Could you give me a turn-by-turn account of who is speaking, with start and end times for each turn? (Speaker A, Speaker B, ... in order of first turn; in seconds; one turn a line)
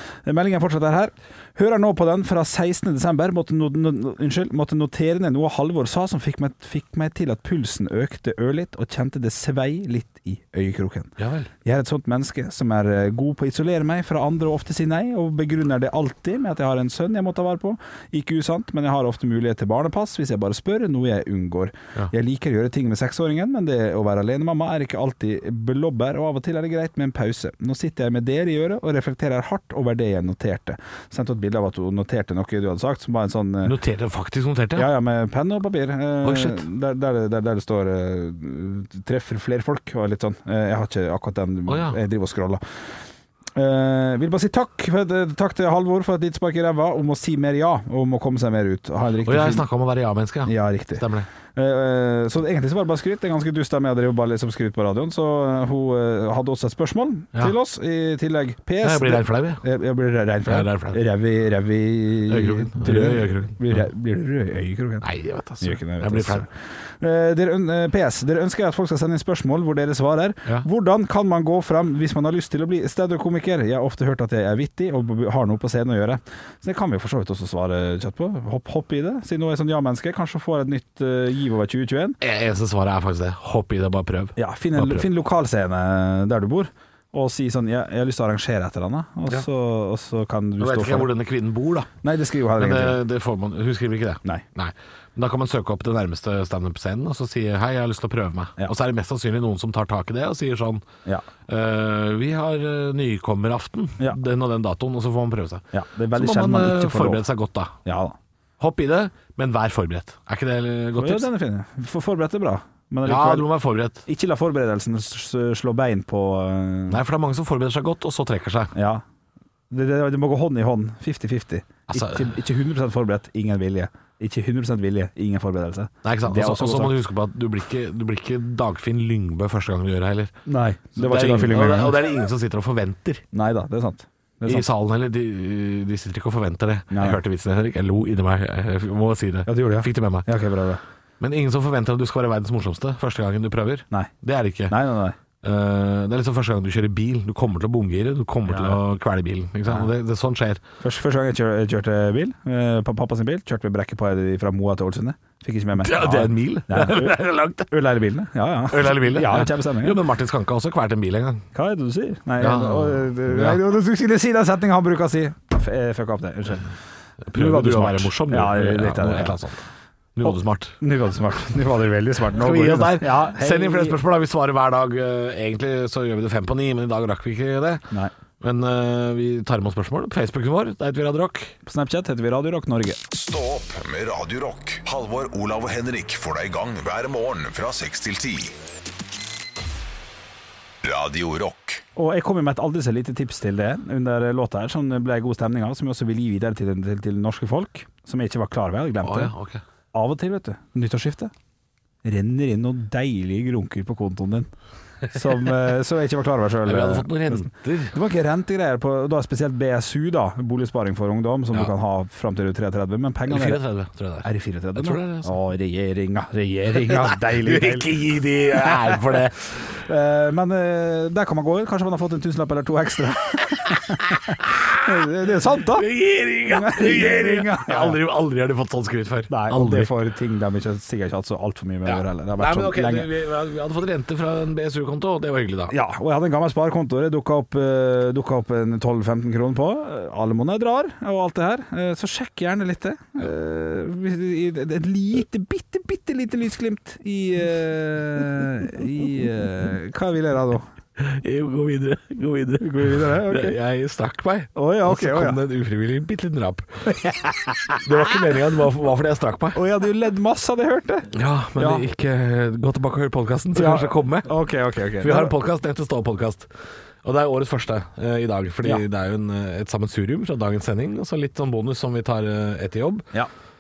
Speaker A: 0.2-33.8
Speaker B: 11.2-11.5
Speaker B: 33.6-34.9
Speaker A: 34.8-42.9
Speaker B: 36.2-36.6
Speaker B: 41.7-42.0
Speaker A: 43.5-49.6
Speaker B: 49.2-51.3
Speaker A: 50.4-65.0
Speaker B: 58.8-59.6
Speaker B: 60.5-61.0
Speaker B: 62.3-63.8
Speaker B: 65.0-66.5
Speaker A: 65.6-82.2
Speaker B: 82.2-85.1
Speaker A: 84.4-91.1
Speaker B: 90.6-91.9
Speaker A: 92.0-93.0
Speaker B: 92.5-100.9
Speaker B: 101.5-107.8
Speaker A: 105.7-107.2
Speaker A: 107.8-108.2
Speaker B: 108.6-111.3
Speaker A: 111.0-113.5
Speaker B: 113.0-114.0
Speaker A: 114.0-117.0
Speaker B: 116.9-118.7
Speaker A: 118.7-119.0
Speaker A: 119.7-127.0
Speaker B: 121.9-122.3
Speaker B: 126.0-130.3
Speaker A: 130.4-132.0
Speaker B: 130.9-133.2
Speaker A: 133.3-134.7
Speaker B: 134.4-140.3
Speaker A: 136.9-137.2
Speaker A: 139.5-140.8
Speaker B: 141.2-144.8
Speaker A: 144.7-145.2
Speaker B: 145.4-150.6
Speaker A: 148.4-148.8
Speaker A: 150.8-160.0
Speaker B: 155.8-157.7
Speaker B: 158.7-161.4
Speaker A: 161.5-166.7
Speaker B: 162.4-163.6
Speaker B: 167.3-169.6
Speaker A: 167.3-169.4
Speaker B: 170.2-170.8
Speaker A: 170.2-174.0
Speaker B: 172.4-181.6
Speaker A: 181.6-183.0
Speaker C: 183.1-188.6
Speaker C: 190.8-191.8
Speaker A: 191.9-199.3
Speaker B: 199.0-199.6
Speaker A: 199.9-201.3
Speaker A: 202.0-204.5
Speaker A: 205.1-213.6
Speaker B: 206.6-207.9
Speaker B: 213.3-215.4
Speaker A: 214.2-218.0
Speaker B: 217.3-219.8
Speaker A: 218.5-225.9
Speaker B: 223.7-224.8
Speaker B: 225.7-229.9
Speaker A: 226.4-228.0
Speaker A: 229.3-233.1
Speaker B: 231.8-235.7
Speaker A: 235.7-250.6
Speaker B: 251.0-256.9
Speaker A: 252.6-253.6
Speaker A: 254.6-255.4
Speaker A: 256.9-258.1
Speaker B: 257.8-259.6
Speaker A: 259.6-261.8
Speaker B: 261.1-264.3
Speaker A: 263.6-265.3
Speaker B: 265.0-266.5
Speaker B: 267.0-273.1